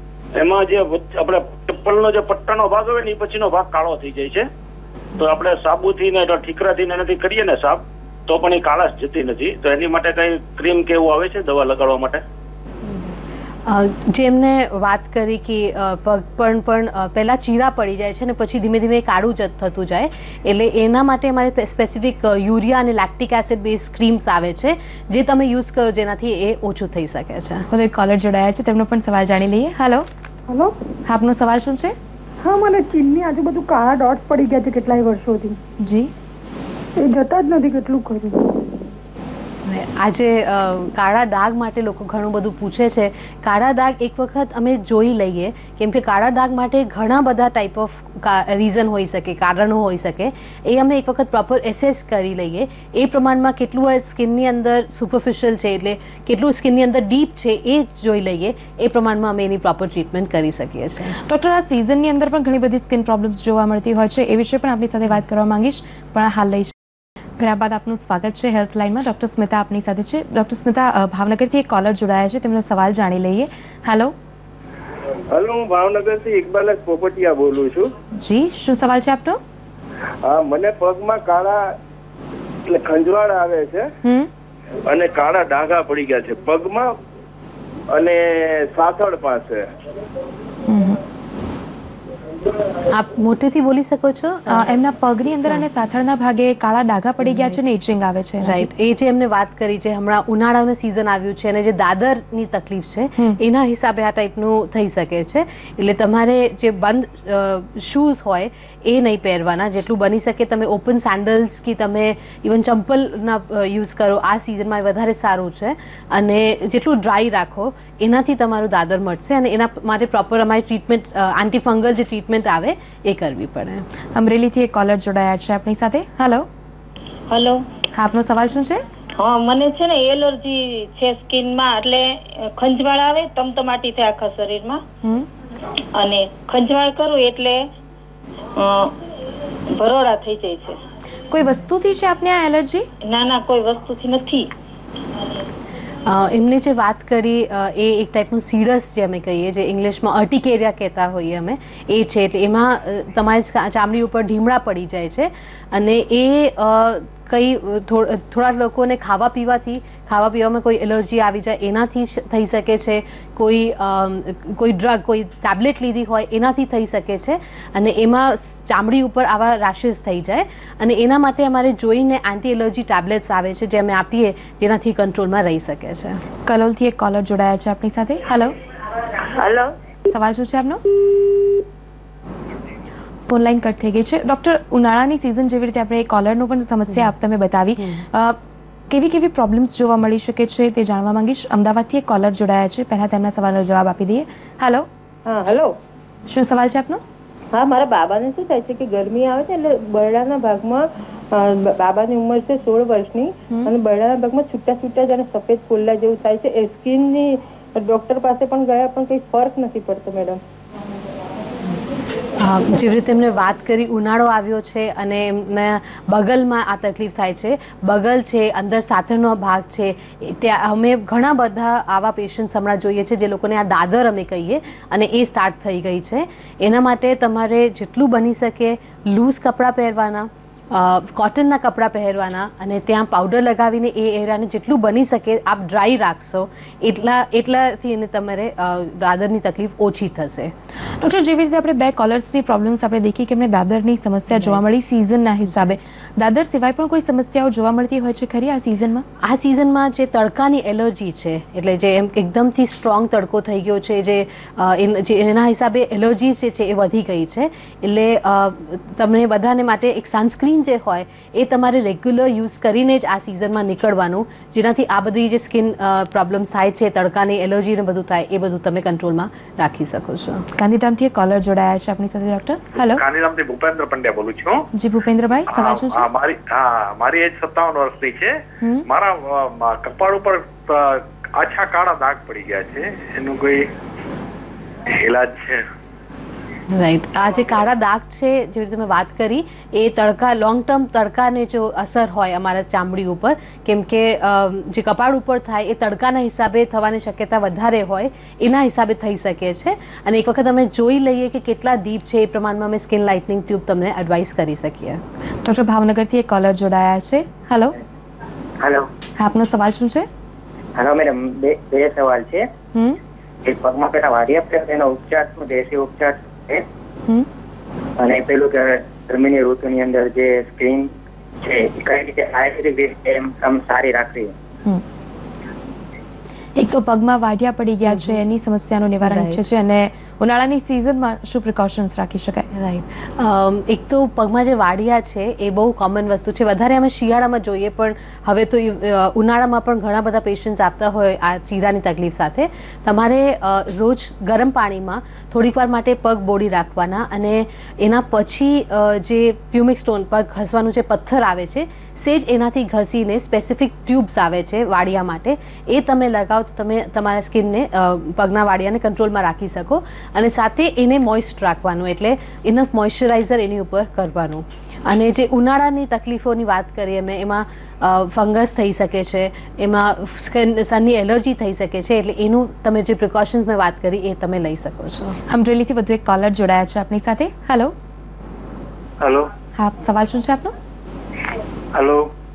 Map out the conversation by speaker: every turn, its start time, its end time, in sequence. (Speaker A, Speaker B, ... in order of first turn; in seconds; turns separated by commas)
Speaker A: 0.4-4.5, Speaker A: 5.2-12.2, Speaker B: 13.7-27.7, Speaker C: 27.7-30.1, Speaker D: 30.5-30.7, Speaker C: 31.1-32.0, Speaker D: 32.4-35.6, Speaker C: 35.8-36.1, Speaker D: 37.0-38.8, Speaker B: 39.7-61.2, Speaker C: 61.2-66.8, Speaker C: 67.4-74.1, Speaker E: 75.3-77.9, Speaker C: 78.1-79.4, Speaker E: 80.2-81.7, Speaker E: 82.7-83.9, Speaker C: 84.0-84.3, Speaker E: 84.9-87.0, Speaker E: 87.9-89.7, Speaker C: 90.7-91.0, Speaker B: 92.9-94.7, Speaker C: 94.5-98.7, Speaker B: 97.3-97.5, Speaker B: 98.4-123.8, Speaker C: 124.2-126.5, Speaker F: 127.3-127.6, Speaker C: 127.9-128.8, Speaker F: 129.2-134.8, Speaker F: 135.9-137.7, Speaker F: 138.6-138.9, Speaker F: 139.7-140.8, Speaker C: 141.3-142.9, Speaker F: 143.0-144.5, Speaker B: 146.1-176.2, Speaker C: 176.5-178.5, Speaker C: 180.1-180.8, Speaker C: 183.3-194.9, Speaker G: 195.3-195.7, Speaker C: 196.3-197.0, Speaker G: 197.5-210.4, Speaker B: 212.4-240.5, Speaker C: 241.0-249.1, Speaker B: 244.3-244.6, Speaker B: 249.2-270.4, Speaker C: 270.6-273.0, Speaker H: 272.8-274.7, Speaker C: 274.7-276.1, Speaker H: 275.5-283.7, Speaker H: 284.9-285.6, Speaker B: 286.7-305.0, Speaker C: 305.4-307.8, Speaker I: 308.6-308.9, Speaker C: 309.2-310.1, Speaker I: 310.8-312.4, Speaker C: 312.7-313.0, Speaker I: 313.4-316.7, Speaker I: 318.0-324.3, Speaker C: 326.6-332.5, Speaker B: 327.9-328.2, Speaker B: 329.0-329.4, Speaker B: 332.5-375.2, Speaker C: 375.3-377.7, Speaker C: 379.6-380.6, Speaker H: 381.8-382.0